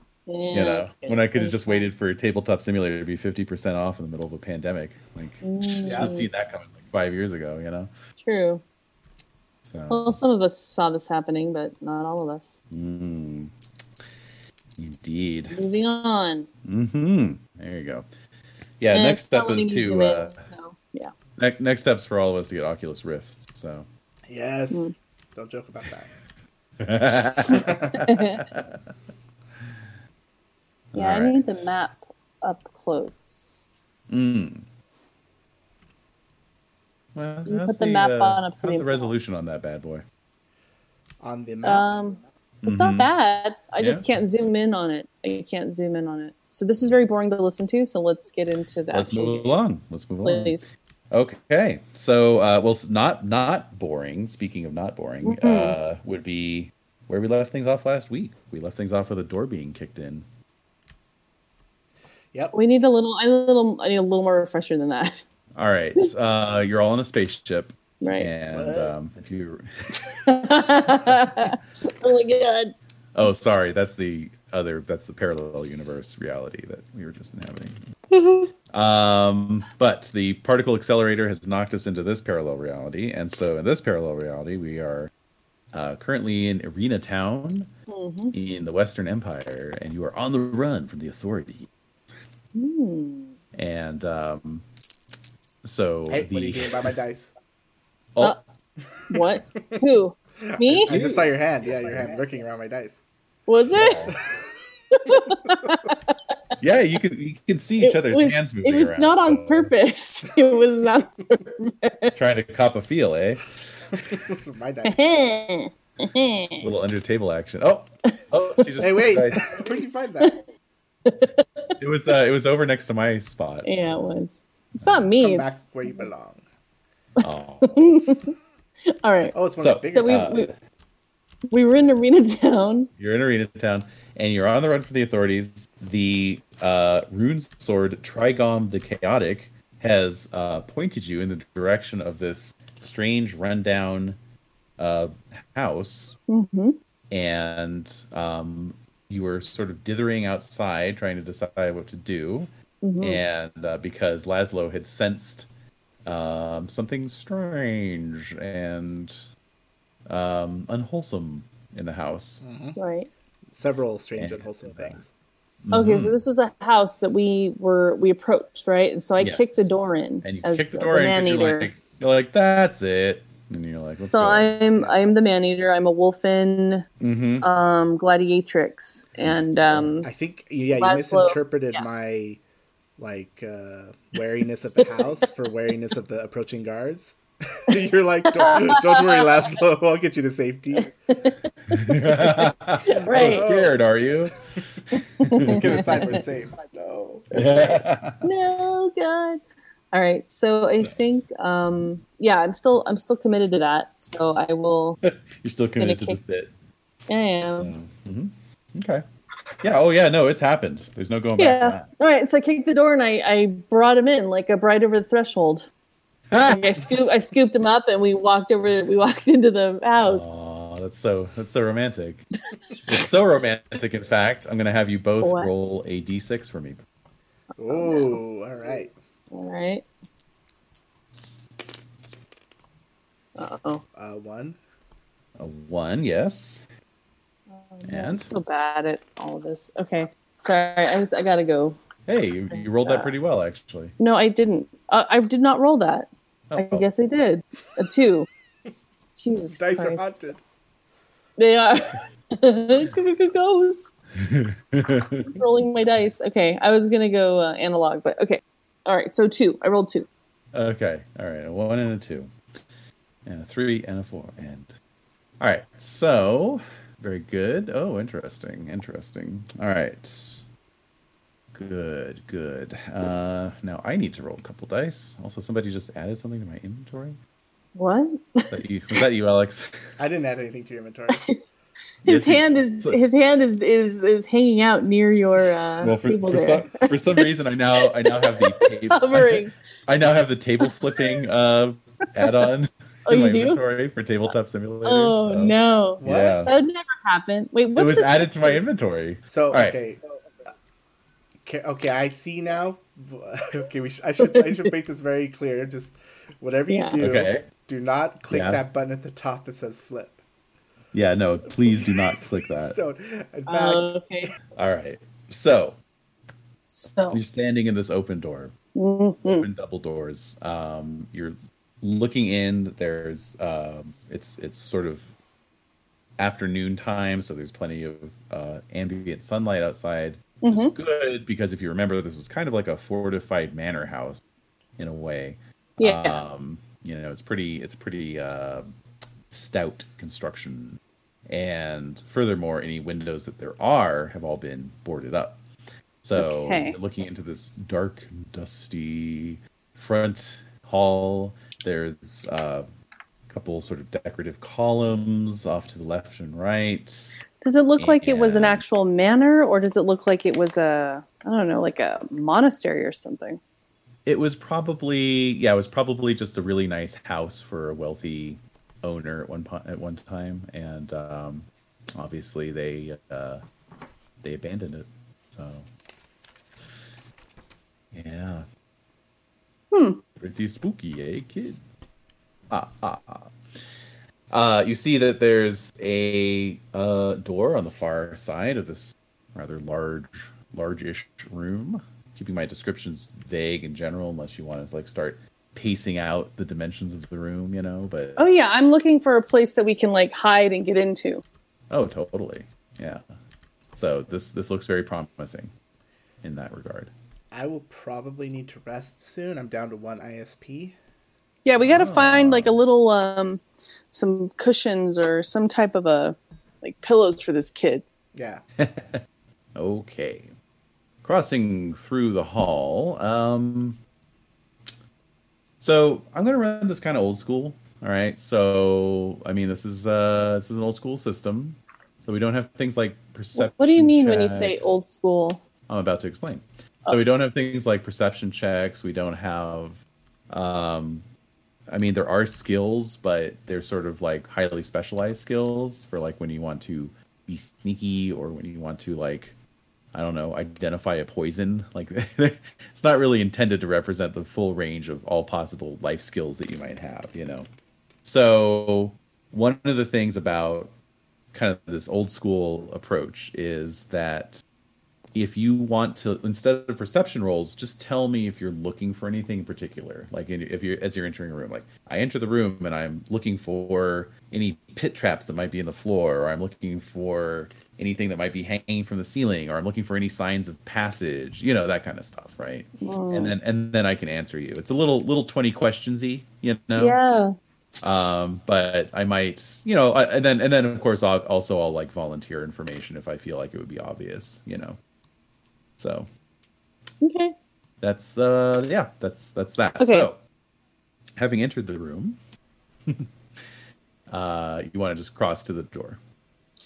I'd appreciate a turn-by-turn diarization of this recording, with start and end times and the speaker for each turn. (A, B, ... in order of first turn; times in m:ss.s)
0:00.3-0:01.9 A
0:00.5-0:07.9 B
0:05.4-0:06.3 A
0:05.8-0:06.1 C
0:08.2-0:08.6 A
0:09.6-0:10.2 B
0:09.9-0:12.6 A
0:12.7-0:13.5 B
0:14.8-0:15.6 B
0:15.5-0:16.5 A
0:16.6-0:18.1 B
0:18.8-0:20.4 B
0:18.9-0:21.1 A
0:21.4-0:23.9 B
0:24.3-0:26.1 C
0:26.8-0:28.8 B
0:27.6-0:28.0 C
0:27.6-0:28.4 A
0:30.9-0:31.8 B
0:31.0-0:33.6 A
0:34.1-0:34.7 B
0:37.2-0:40.0 B
0:37.5-0:39.1 A
0:41.2-0:42.2 C
0:41.6-0:49.6 A
0:42.6-0:43.1 B
0:43.8-0:44.1 B
0:48.9-1:00.3 B
0:50.2-0:50.7 A
0:55.2-0:55.8 A
1:02.5-1:05.2 A
1:05.6-1:10.2 B
1:08.0-1:08.3 A
1:08.5-1:09.0 C
1:10.1-1:12.7 A
1:13.2-1:17.8 B
1:18.1-1:18.5 A
1:18.7-1:25.1 B
1:25.7-1:27.7 B
1:27.9-1:28.3 A
1:28.3-1:31.7 B
1:32.6-1:33.3 A
1:33.6-1:34.6 B
1:35.6-1:36.9 B
1:36.1-1:37.3 C
1:38.2-1:38.4 B
1:39.1-1:40.9 A
1:40.5-1:43.0 C
1:40.9-1:42.1 B
1:43.5-1:44.1 A
1:43.7-1:44.2 B
1:44.9-1:46.2 A
1:45.4-1:45.9 C
1:46.6-1:49.7 B
1:47.8-1:52.2 A
1:52.2-1:54.2 B
1:54.0-1:55.3 C
1:54.8-1:56.6 A
1:56.6-1:59.5 B
1:58.8-2:00.4 C
1:59.4-1:59.6 A
2:01.0-2:01.7 A
2:01.8-2:04.1 B
2:03.6-2:06.1 A
2:04.8-2:05.1 B
2:05.2-2:06.4 C
2:07.2-2:08.0 B
2:07.7-2:08.3 A
2:08.9-2:09.4 A
2:09.3-2:10.4 C
2:09.6-2:10.5 B
2:09.9-2:10.5 A
2:11.5-2:12.9 A
2:13.0-2:24.2 B
2:24.8-2:26.2 B
2:26.3-2:26.8 A
2:27.1-2:35.5 B
2:32.8-2:33.2 A
2:36.0-2:39.3 B
2:40.1-2:42.4 B
2:42.4-2:42.8 C
2:42.8-2:43.1 A
2:43.5-2:45.1 C
2:44.2-2:45.0 B
2:45.6-2:46.2 B
2:45.7-2:51.7 A
2:49.2-2:54.6 B
2:54.1-2:56.9 A
2:57.0-2:57.5 B
2:57.4-3:00.1 A
2:59.2-3:00.0 B
3:00.0-3:02.4 C
3:00.7-3:01.8 A
3:03.0-3:10.9 C
3:04.8-3:05.1 A
3:08.3-3:09.3 A
3:10.8-3:13.6 A
3:11.7-3:16.2 B
3:13.0-3:13.8 C
3:15.0-3:16.2 A
3:15.5-3:17.3 C
3:17.3-3:19.4 A
3:17.3-3:18.2 B
3:19.9-3:25.0 A
3:25.0-3:26.5 B
3:25.8-3:26.2 A
3:27.1-3:27.7 A
3:27.6-3:29.0 B
3:29.6-3:31.9 B
3:31.4-3:35.7 A
3:36.3-3:36.9 B
3:36.4-3:40.3 A
3:40.0-3:42.2 B
3:42.9-3:46.8 B
3:45.2-3:45.5 A
3:47.6-3:48.9 C
3:47.6-3:48.2 A
3:49.3-3:49.9 A
3:53.4-3:53.8 A
3:54.0-3:54.6 C
3:55.4-3:56.6 B
3:57.6-4:01.8 A
3:57.8-3:58.3 B
4:02.1-4:03.9 B
4:02.5-4:03.1 A
4:04.0-4:08.3 A
4:06.5-4:06.9 B
4:09.1-4:10.2 A
4:09.4-4:10.4 C
4:11.4-4:13.9 A
4:14.2-4:15.4 B
4:15.2-4:20.1 A
4:20.5-4:22.3 B
4:23.3-4:24.7 B
4:25.4-4:30.4 B
4:31.5-4:37.2 B
4:37.8-4:38.5 A
4:38.5-4:39.8 B
4:40.0-4:41.3 C
4:41.1-4:41.4 A
4:42.0-4:43.0 B
4:42.0-4:49.5 A
4:45.8-4:56.5 B
4:50.6-4:51.2 A
4:53.1-4:53.6 A
4:54.8-4:58.6 A
4:56.0-4:56.4 C
4:57.8-4:59.8 B
4:59.3-5:00.5 C
5:01.4-5:10.2 C
5:04.2-5:04.7 A
5:06.7-5:07.0 A
5:07.0-5:07.4 B
5:08.3-5:08.6 B
5:10.9-5:12.8 B
5:12.6-5:13.9 C
5:13.5-5:14.3 A
5:14.6-5:15.8 B
5:16.7-5:17.2 A
5:17.1-5:18.5 B
5:18.8-5:19.5 A
5:19.2-5:25.1 B
5:26.2-5:34.2 B
5:30.4-5:30.7 A
5:34.8-5:38.7 B
5:35.8-5:36.2 A
5:39.3-5:45.4 B
5:46.0-5:52.7 B
5:46.2-5:46.8 A
5:53.3-5:57.2 B
5:57.4-6:03.4 A
5:57.8-5:58.6 B
6:04.1-6:13.4 B
6:14.2-6:15.7 B
6:17.9-6:18.5 B
6:19.7-6:20.0 A
6:20.2-6:21.6 B
6:22.5-6:23.8 B
6:24.3-6:38.3 B
6:38.2-6:41.2 A
6:41.7-6:43.0 B
6:43.8-6:45.5 B
6:46.2-6:46.9 B
6:47.3-6:50.8 C
6:51.4-6:57.8 A
6:51.6-6:52.6 B
6:58.2-6:58.4 C
6:58.6-6:59.0 B
6:59.6-7:00.3 B
7:01.0-7:03.8 B
7:05.6-7:14.6 B
7:13.4-7:15.4 A
7:15.7-7:21.1 B
7:21.7-7:29.4 B
7:29.9-7:37.5 B
7:38.0-7:40.8 B
7:41.3-7:44.4 B
7:45.2-8:07.0 B
8:02.8-8:03.4 A
8:06.8-8:07.3 A
8:07.8-8:14.8 B
8:15.8-8:16.1 B
8:17.0-8:17.3 A
8:17.8-8:20.2 B
8:19.8-8:20.1 A
8:21.2-8:22.2 B
8:24.1-8:26.0 B